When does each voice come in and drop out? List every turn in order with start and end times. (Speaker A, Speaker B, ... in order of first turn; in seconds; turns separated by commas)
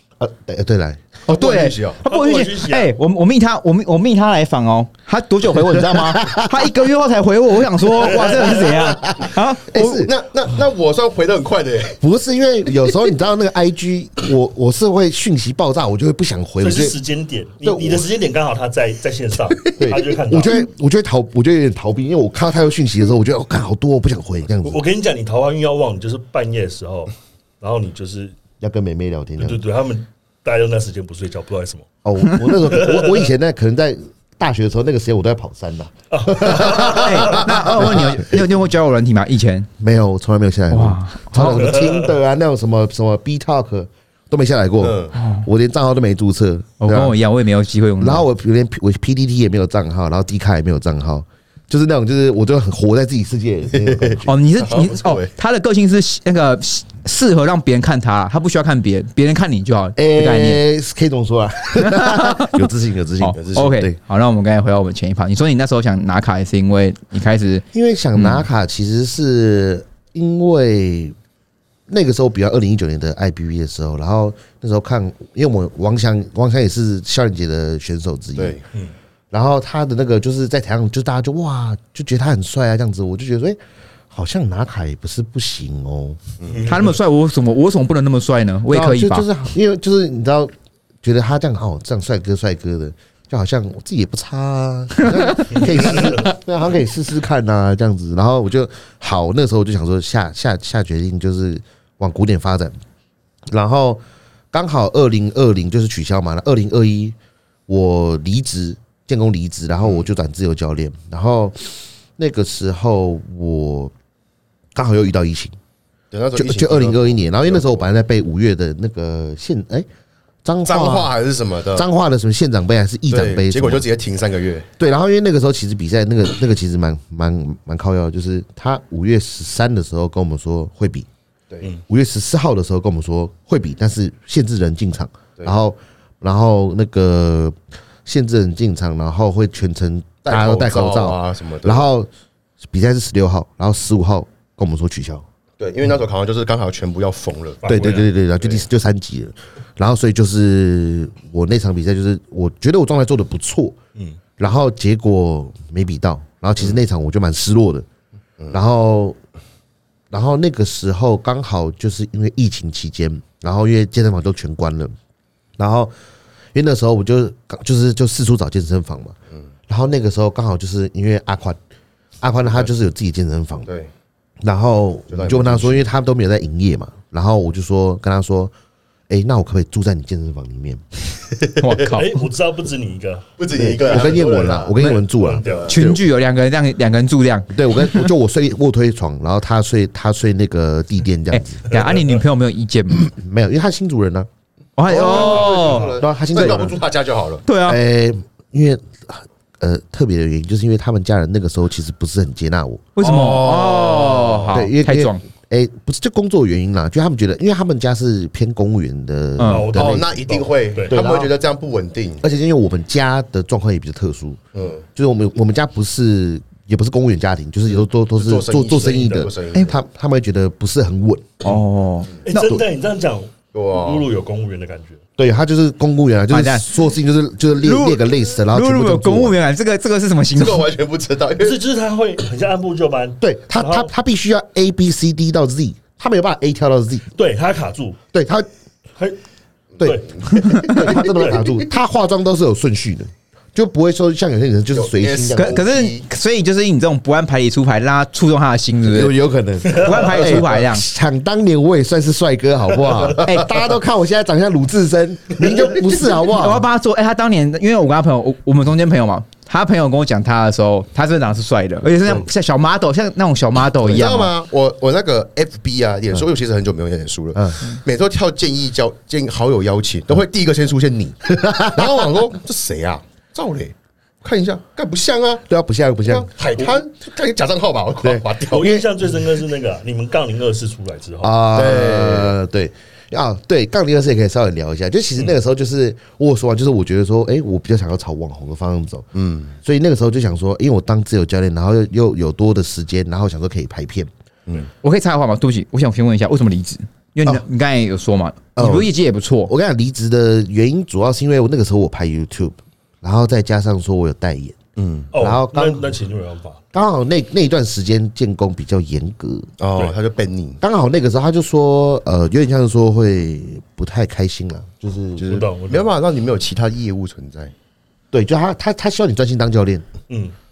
Speaker A: 0.2-1.1, Speaker B: 1.3-2.0, Speaker C: 1.3-10.1, Speaker D: 2.1-2.9, Speaker A: 5.5-6.7, Speaker D: 8.0-8.7, Speaker A: 8.0-10.1, Speaker B: 9.9-12.0, Speaker A: 12.0-17.0, Speaker D: 16.6-20.7, Speaker A: 17.6-18.1, Speaker A: 19.8-24.8, Speaker D: 24.6-28.4, Speaker A: 28.6-29.6, Speaker D: 29.4-31.9, Speaker A: 32.0-38.4, Speaker D: 32.6-33.3, Speaker D: 36.1-37.4, Speaker C: 36.7-39.7, Speaker A: 39.8-47.2, Speaker C: 40.7-41.7, Speaker D: 41.5-42.1, Speaker B: 44.8-45.1, Speaker C: 45.1-45.5, Speaker C: 46.8-48.2, Speaker A: 48.0-54.3, Speaker B: 53.8-55.3, Speaker C: 54.3-60.6, Speaker A: 60.0-64.0, Speaker C: 61.7-62.7, Speaker C: 63.2-68.5, Speaker B: 63.4-63.7, Speaker A: 67.7-71.2, Speaker A: 71.9-78.6, Speaker B: 78.4-78.6, Speaker A: 79.3-83.6, Speaker A: 84.1-86.2, Speaker B: 86.4-86.7, Speaker D: 86.5-86.9, Speaker C: 86.7-89.3, Speaker A: 88.7-90.5, Speaker A: 91.0-102.8, Speaker D: 95.6-96.2, Speaker A: 103.5-104.0, Speaker A: 104.5-107.2, Speaker A: 107.7-113.9, Speaker A: 114.8-115.5, Speaker B: 116.1-117.9, Speaker A: 116.3-119.9, Speaker A: 120.4-121.1, Speaker B: 120.7-121.9, Speaker A: 121.7-123.9, Speaker B: 123.1-124.7, Speaker A: 124.8-131.1, Speaker B: 131.5-131.8, Speaker A: 131.9-142.1, Speaker B: 140.3-141.9, Speaker A: 142.7-145.2, Speaker B: 145.6-147.7, Speaker D: 147.6-148.1, Speaker A: 147.7-153.8, Speaker B: 148.4-148.7, Speaker A: 154.4-157.9, Speaker A: 158.5-159.2, Speaker A: 160.1-164.9, Speaker A: 165.6-165.9, Speaker A: 166.5-169.2, Speaker A: 169.7-171.6, Speaker A: 172.2-173.7, Speaker B: 173.7-173.9, Speaker A: 174.4-178.5, Speaker B: 175.1-175.8, Speaker A: 179.1-180.8, Speaker B: 181.5-181.8, Speaker C: 181.6-182.2, Speaker D: 181.9-184.2, Speaker B: 183.4-185.8, Speaker A: 183.8-186.0, Speaker D: 184.7-185.7, Speaker C: 185.7-188.1, Speaker A: 187.5-191.6, Speaker C: 191.3-193.1, Speaker D: 191.7-192.2, Speaker A: 193.0-194.3, Speaker C: 194.8-196.6, Speaker B: 194.8-197.5, Speaker A: 196.0-196.8, Speaker C: 197.5-197.8, Speaker A: 197.7-202.9, Speaker C: 203.0-205.2, Speaker B: 203.0-204.5, Speaker A: 204.5-210.1, Speaker C: 209.4-209.7, Speaker D: 209.4-211.0, Speaker B: 209.7-212.2, Speaker A: 210.9-211.3, Speaker A: 212.2-214.4, Speaker B: 214.5-214.8, Speaker A: 214.9-221.5, Speaker B: 218.2-219.8, Speaker D: 218.7-219.3, Speaker C: 221.4-222.5, Speaker D: 222.3-225.0, Speaker A: 222.4-222.6, Speaker B: 223.5-224.1, Speaker A: 225.2-229.4, Speaker C: 226.3-226.7, Speaker C: 227.6-230.7, Speaker B: 230.3-231.6, Speaker D: 231.4-233.9, Speaker A: 233.2-237.1, Speaker D: 237.2-238.0, Speaker A: 238.1-238.5, Speaker B: 239.8-241.5, Speaker A: 239.8-245.7, Speaker D: 239.8-240.2, Speaker C: 240.3-240.9, Speaker D: 240.8-241.4, Speaker B: 244.7-246.1, Speaker C: 245.4-249.2, Speaker A: 248.8-256.7, Speaker C: 249.7-250.8, Speaker C: 256.3-264.3, Speaker B: 263.8-275.5, Speaker A: 267.4-267.6, Speaker A: 271.3-271.9, Speaker A: 275.5-276.3, Speaker B: 276.1-278.8, Speaker A: 278.0-278.9, Speaker D: 278.5-281.5, Speaker A: 281.2-289.1, Speaker B: 281.6-282.4, Speaker B: 289.1-289.6, Speaker A: 289.6-294.1, Speaker C: 294.8-299.5, Speaker A: 298.6-298.9, Speaker A: 299.4-304.6, Speaker B: 304.8-305.1, Speaker D: 305.1-306.6, Speaker A: 305.2-305.9, Speaker A: 306.7-309.5, Speaker B: 309.6-310.6, Speaker A: 310.6-315.3, Speaker B: 315.2-317.5, Speaker D: 315.2-315.9, Speaker A: 318.1-319.9